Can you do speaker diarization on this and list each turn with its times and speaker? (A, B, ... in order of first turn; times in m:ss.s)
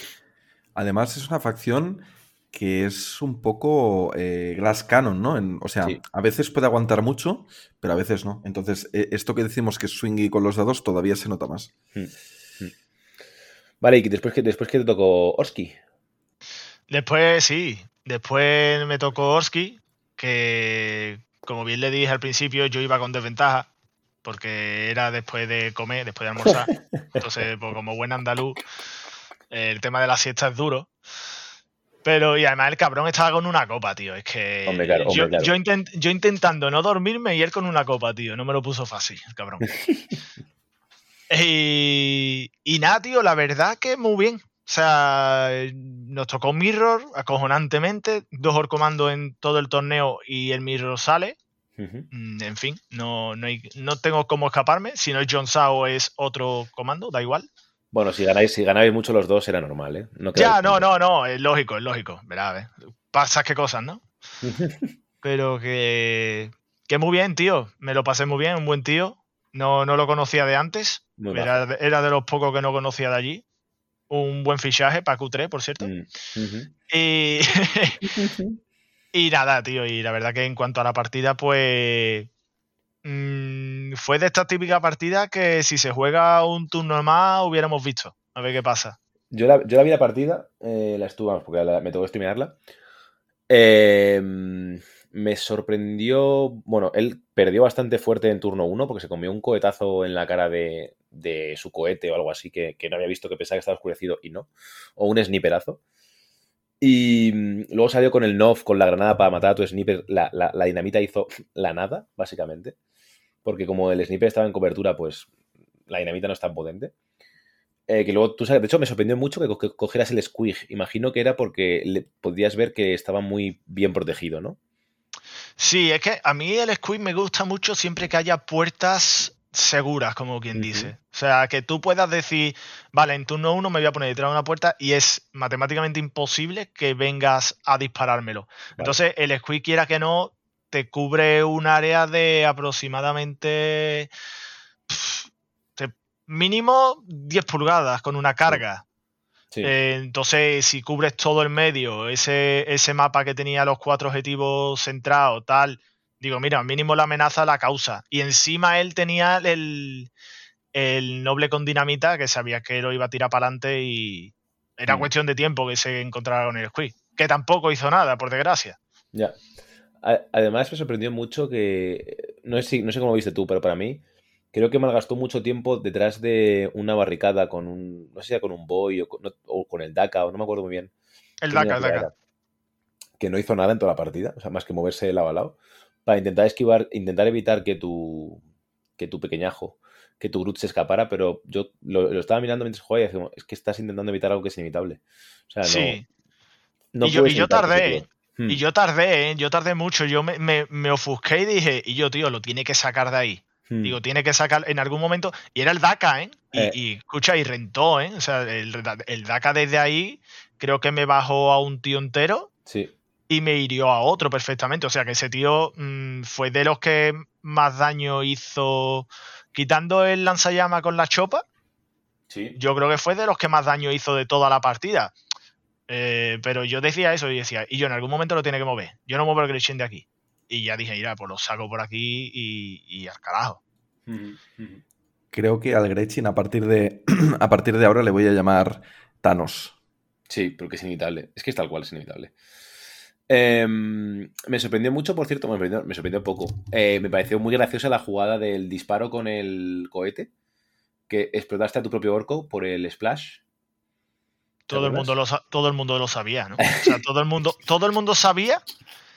0:00.7-0:11.7 A
0:11.9-0:12.7 B
0:13.8-0:15.8 B
0:16.9-0:23.7 C
0:24.2-0:28.6 C
0:29.5-0:30.9 C
0:32.0-0:39.7 C
0:34.7-0:35.5 B
0:39.7-0:40.0 B
0:41.3-0:51.4 C
0:51.8-0:52.1 B
0:52.1-0:57.5 C
0:57.9-1:00.8 B
1:00.3-1:04.0 C
1:04.4-1:04.9 B
1:05.2-1:13.4 C
1:11.2-1:11.6 B
1:14.1-1:15.9 C
1:15.8-1:16.7 B
1:16.9-1:18.0 C
1:18.0-1:18.6 B
1:19.1-1:22.3 C
1:23.0-1:29.0 C
1:29.3-1:32.6 B
1:33.5-1:45.8 B
1:46.8-1:52.7 B
1:53.4-1:55.3 B
1:55.9-1:56.9 B
1:57.9-2:04.6 B
2:05.6-2:24.1 C
2:10.6-2:10.9 B
2:24.9-2:28.8 C
2:29.6-2:40.1 C
2:40.7-2:48.8 C
2:50.0-2:54.0 B
2:54.5-3:00.9 B
3:01.4-3:02.1 C
3:01.5-3:02.1 B
3:03.2-3:08.4 B
3:09.0-3:16.0 B
3:15.6-3:16.0 C
3:16.9-3:18.6 B
3:17.0-3:32.5 C
3:23.7-3:24.0 B
3:32.7-3:32.9 B
3:33.3-3:41.4 C
3:42.3-3:42.6 B
3:42.6-3:45.1 C
3:45.9-3:53.6 C
3:54.1-3:54.8 B
3:55.3-3:59.7 A
4:00.3-4:02.3 B
4:03.3-4:10.3 B
4:11.1-4:13.4 B
4:14.7-4:18.6 C
4:14.7-4:15.1 B
4:16.6-4:16.9 B